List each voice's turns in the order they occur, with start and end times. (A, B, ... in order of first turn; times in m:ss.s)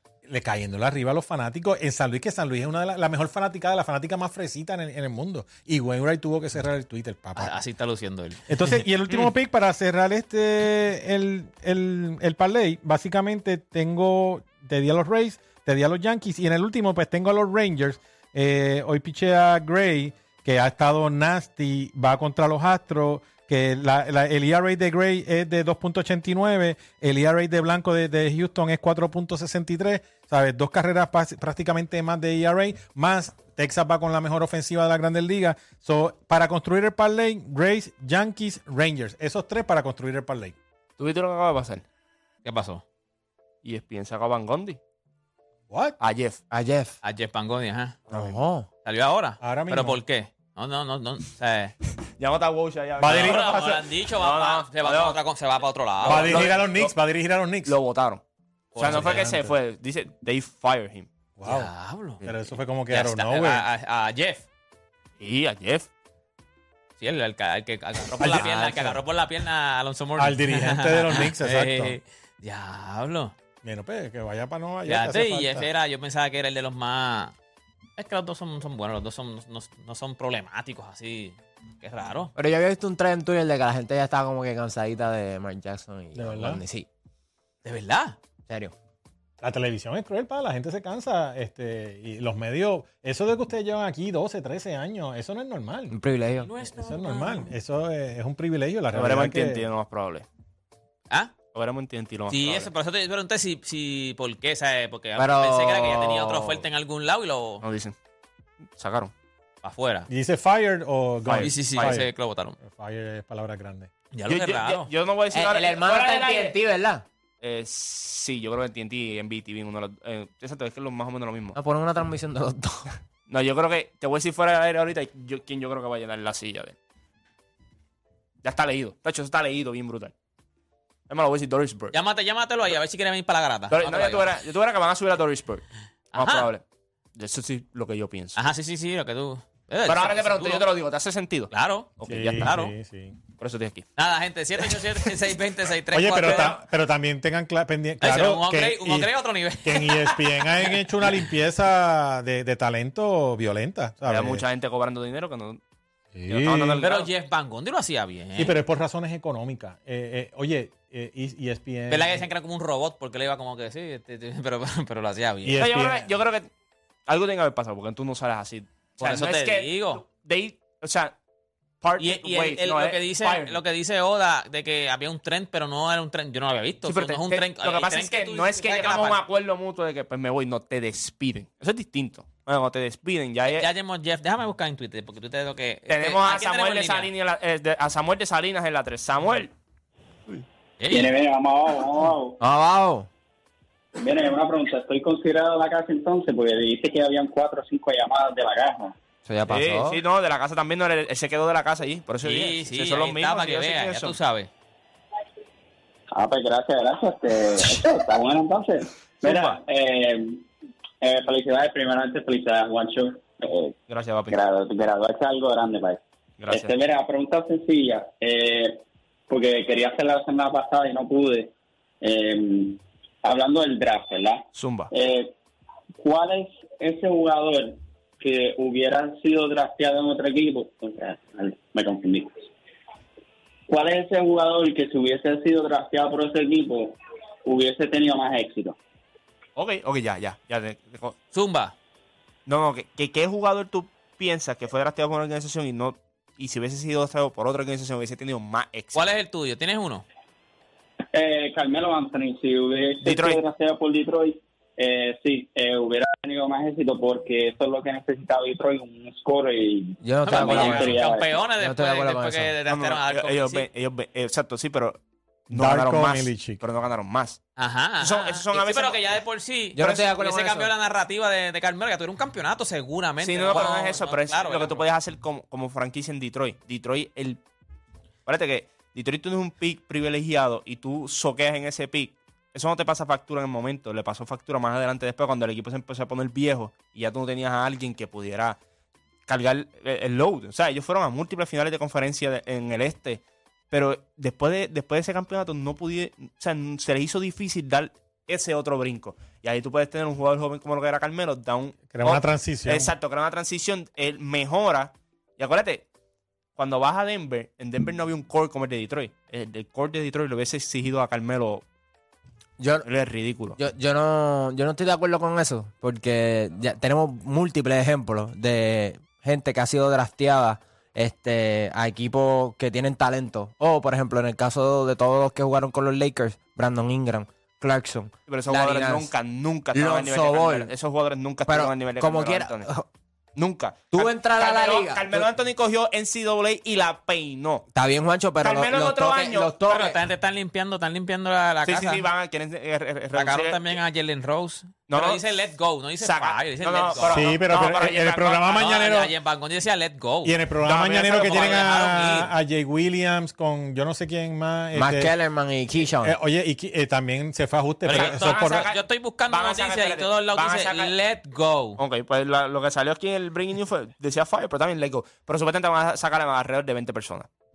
0:00.3-0:07.6 A
0:07.4-0:08.8 B
0:08.5-0:40.6 A
0:41.0-0:41.8 C
0:42.4-0:42.8 B
0:43.6-0:44.8 C
0:45.7-0:46.0 A
0:46.0-0:46.4 C
0:46.5-0:47.0 D
0:47.0-0:48.0 B
0:48.1-0:48.7 D
0:48.8-0:51.8 B
0:49.4-0:50.0 A
0:52.2-0:55.2 C
0:53.0-0:53.8 A
0:53.1-0:56.5 B
0:56.0-0:56.9 C
0:56.1-0:57.8 A
0:57.7-0:58.2 C
0:58.8-0:59.4 B
0:58.8-1:01.1 C
0:58.8-0:59.4 A
1:01.4-1:01.7 A
1:01.5-1:02.2 B
1:02.2-1:03.6 A
1:02.9-1:04.4 B
1:05.2-1:05.9 C
1:07.0-1:13.3 B
1:08.2-1:09.0 A
1:10.2-1:12.0 A
1:13.6-1:15.7 A
1:14.9-1:17.3 B
1:18.0-1:22.3 B
1:22.4-1:26.9 D
1:26.2-1:26.6 A
1:27.6-1:28.2 B
1:28.5-1:28.7 D
1:29.4-1:36.0 A
1:35.9-1:36.5 D
1:36.4-1:37.5 B
1:36.7-1:39.6 A
1:38.9-1:40.3 C
1:41.1-1:41.4 B
1:41.5-1:42.7 C
1:42.3-1:47.6 B
1:45.2-1:46.6 D
1:47.6-1:48.0 C
1:48.8-1:49.1 C
1:49.6-1:50.1 B
1:50.1-1:52.1 A
1:51.3-1:52.0 C
1:51.4-1:52.6 B
1:52.6-1:53.9 A
1:54.1-1:54.9 B
1:54.3-1:56.6 C
1:55.3-1:57.0 D
1:57.4-2:01.6 C
2:01.6-2:02.9 D
2:03.3-2:06.8 C
2:08.4-2:10.1 C
2:11.1-2:11.9 C
2:11.9-2:14.4 B
2:13.7-2:15.6 C
2:16.1-2:16.5 B
2:16.2-2:16.6 C
2:17.2-2:18.4 C
2:18.4-2:20.7 B
2:19.8-2:22.5 C
2:21.5-2:22.7 B
2:22.1-2:23.2 A
2:23.4-2:23.9 C
2:24.0-2:26.6 B
2:25.9-2:29.1 A
2:26.2-2:26.5 C
2:28.0-2:31.2 B
2:29.6-2:34.4 A
2:34.1-2:35.6 C
2:36.2-2:36.8 A
2:36.3-2:37.1 C
2:36.8-2:38.6 B
2:38.4-2:42.3 A
2:41.9-2:45.6 B
2:45.4-2:46.1 A
2:45.6-2:46.5 C
2:47.1-2:51.2 C
2:49.0-2:50.0 B
2:51.8-2:53.6 C
2:52.0-2:59.2 B
2:56.8-3:03.7 C
3:03.5-3:07.1 B
3:05.9-3:09.5 C
3:10.8-3:11.1 B
3:10.9-3:12.4 E
3:12.4-3:13.1 D
3:14.0-3:18.9 E
3:19.3-3:20.0 D
3:19.5-3:24.2 C
3:22.2-3:24.5 B
3:26.2-3:30.4 E
3:29.2-3:29.6 C
3:31.0-3:33.8 E
3:33.9-3:34.4 C
3:34.3-3:45.3 E
3:36.4-3:36.7 C
3:44.6-3:44.9 C
3:46.0-3:52.5 E
3:53.7-3:58.8 E
3:59.6-4:01.2 C
4:01.3-4:01.8 B
4:02.5-4:09.0 C
4:09.0-4:10.0 B
4:11.1-4:21.4 E
4:13.0-4:13.4 C
4:20.0-4:21.0 D
4:20.3-4:23.7 B
4:21.6-4:22.5 D
4:22.7-4:27.4 C
4:25.5-4:26.6 A
4:27.6-4:34.9 B
4:28.0-4:29.0 C
4:29.8-4:30.7 D
4:29.8-4:30.1 C
4:33.2-4:37.4 C
4:38.3-4:48.6 C
4:49.3-5:05.8 C
5:01.9-5:02.9 A
5:06.6-5:11.6 C
5:12.6-5:12.9 D
5:12.8-5:13.6 C
5:13.6-5:29.1 D
5:28.3-5:32.7 C
5:29.7-5:30.7 D
5:31.5-5:32.9 D
5:33.4-5:37.7 C
5:33.9-5:35.3 D
5:37.8-5:40.0 D
5:38.4-5:39.6 C
5:39.7-5:42.0 B
5:41.6-5:43.7 C
5:43.1-5:47.3 B
5:44.9-5:45.2 C
5:46.0-5:48.6 C
5:47.1-5:49.1 A
5:48.5-5:50.4 B
5:50.2-5:55.1 A
5:50.6-5:51.7 C
5:51.2-5:52.3 B
5:54.7-5:56.2 D
5:56.0-5:58.7 A
5:57.9-6:01.8 B
5:57.9-6:00.9 C
6:01.8-6:07.3 C